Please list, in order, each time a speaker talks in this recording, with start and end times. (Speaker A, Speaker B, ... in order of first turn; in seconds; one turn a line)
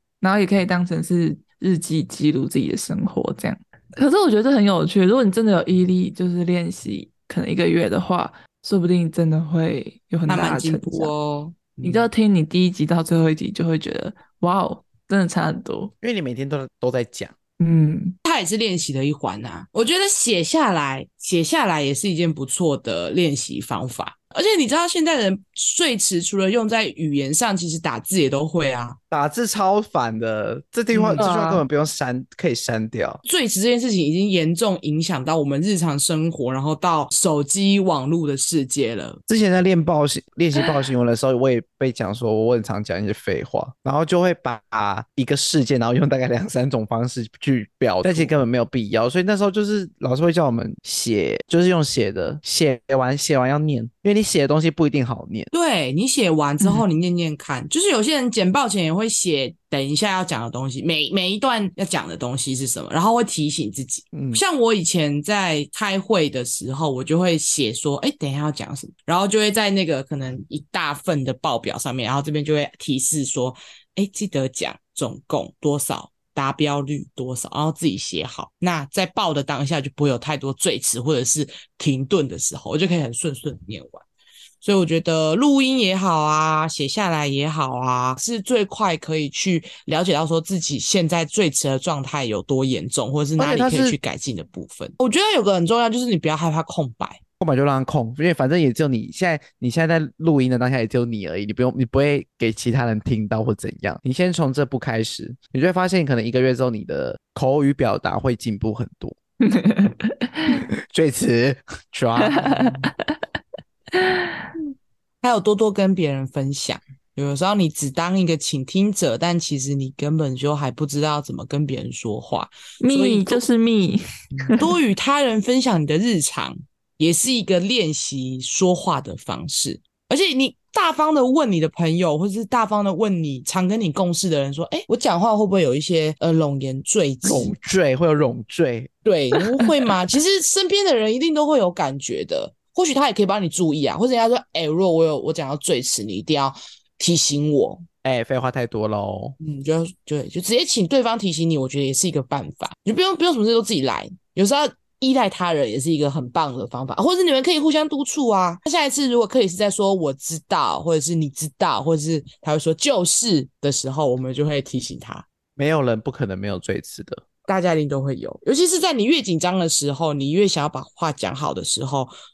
Speaker A: 0.2-11.1
Speaker B: 10.3-12.1
Speaker A: 11.8-15.9
Speaker C: 16.0-17.3
Speaker A: 17.6-18.1
Speaker B: 18.2-29.0
Speaker C: 29.1-33.2
Speaker B: 30.9-31.3
Speaker A: 31.1-31.6
Speaker B: 33.2-39.2
Speaker C: 39.3-55.5
Speaker B: 48.0-48.4
Speaker B: 55.5-84.0
Speaker C: 64.1-64.4
Speaker B: 84.6-97.2
Speaker C: 93.4-94.0
Speaker C: 97.4-109.2
Speaker A: 109.4-110.6
Speaker C: 110.5-112.8
Speaker A: 112.2-113.2
Speaker A: 113.9-114.5
Speaker B: 115.2-123.4
Speaker A: 122.8-124.7
Speaker B: 124.5-137.5
Speaker C: 137.2-138.9
Speaker B: 139.0-147.8
Speaker C: 148.0-149.3
Speaker B: 149.4-165.2
Speaker C: 165.6-167.2
Speaker B: 167.5-172.1